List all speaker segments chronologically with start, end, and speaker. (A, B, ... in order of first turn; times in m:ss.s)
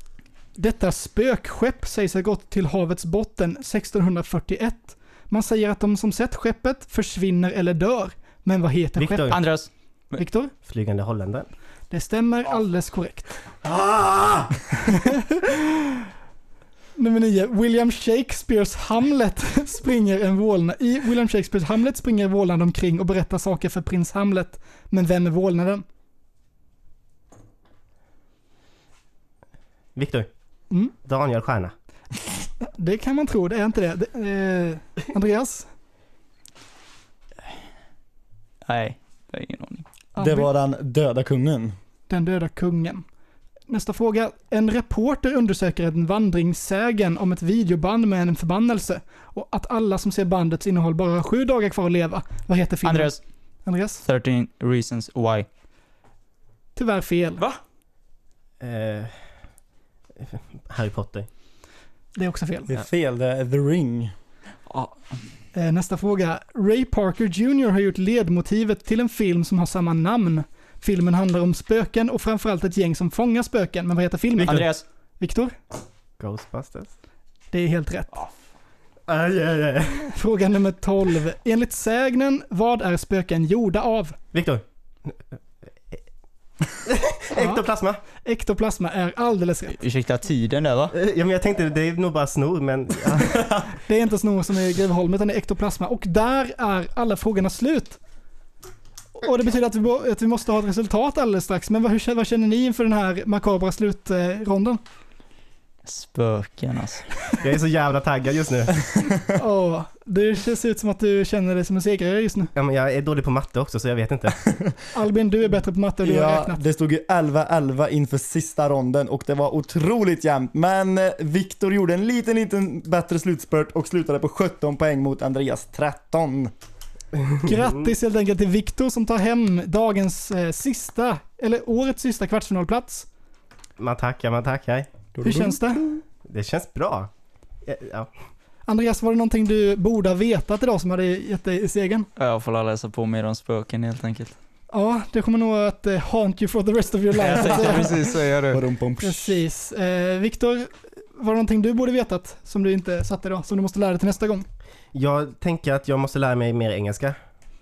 0:00.6-0:09.4 A
0:09.0-0:09.4 B
0:09.3-0:10.2 C
0:10.2-0:10.5 A
0:10.6-0:11.5 B
0:11.9-0:13.3 A
0:13.6-0:14.5 D
0:14.9-0:16.0 A
0:17.0-0:25.8 A
0:30.0-0:30.3 B
0:31.0-0:31.7 B
0:32.6-0:35.7 A
0:38.6-0:39.8 C
0:40.2-0:40.5 A
0:40.2-0:41.8 D
0:42.1-0:43.0 A
0:43.7-0:54.0 A
0:52.8-0:53.2 C
0:54.1-0:55.5 C
0:56.8-0:57.4 A
0:58.6-0:59.1 B
1:00.2-1:01.3 B
1:02.2-1:02.7 A
1:02.7-1:04.1 D
1:05.6-1:14.7 A
1:14.4-1:14.7 B
1:14.4-1:14.8 C
1:15.2-1:15.5 A
1:16.2-1:16.9 B
1:17.5-1:18.2 A
1:19.1-1:20.1 B
1:20.1-1:24.2 A
1:24.3-1:25.2 B
1:26.8-1:28.0 B
1:27.4-1:29.8 A
1:29.7-1:31.0 C
1:30.9-1:33.6 B
1:33.8-1:38.0 A
1:39.2-1:44.8 A
1:45.9-1:47.1 C
1:47.4-1:48.9 B
1:49.3-1:52.5 A
1:52.6-1:54.4 B
1:54.9-1:56.6 A
1:56.0-2:06.5 D
2:07.4-2:13.1 A
2:13.8-2:14.9 B
2:15.2-2:15.6 D
2:15.2-2:16.0 A
2:16.3-2:17.1 B
2:17.6-2:18.1 B
2:18.7-2:22.1 A
2:22.2-2:24.4 C
2:24.7-2:27.9 A
2:27.2-2:28.6 C
2:27.3-2:29.4 D
2:29.0-2:34.5 A
2:34.9-2:37.2 B